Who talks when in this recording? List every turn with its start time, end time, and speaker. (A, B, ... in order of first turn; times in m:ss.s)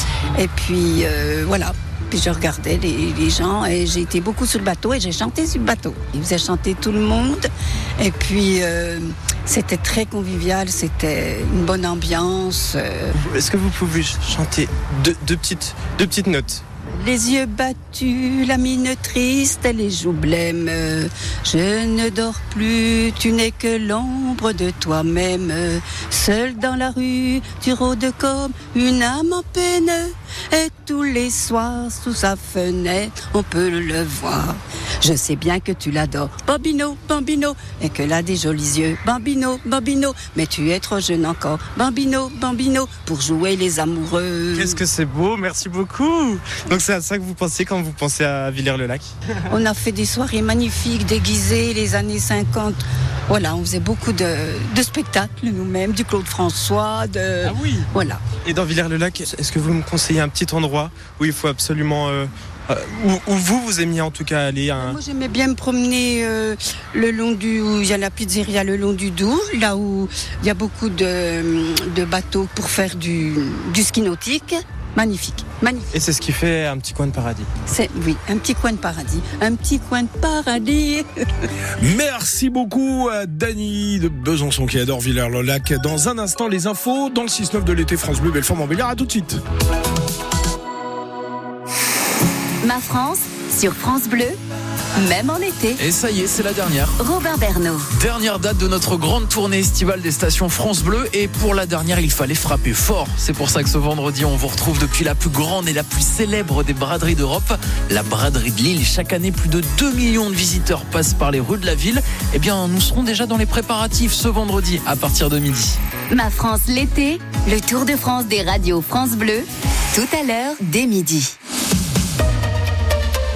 0:00.3-0:13.1 A
0:13.1-0:16.6 B
0:16.9-0:44.8 A
0:44.5-0:49.1 B
0:49.5-0:58.3 A
0:57.4-1:05.0 B
1:04.8-1:15.9 A
1:15.9-1:17.5 B
1:17.6-1:21.1 A
1:21.8-1:29.4 C
1:32.6-1:34.4 D
1:35.0-1:35.8 D
1:35.8-1:37.0 E
1:37.0-1:37.9 D
1:37.9-1:55.8 E
1:56.1-2:01.3 D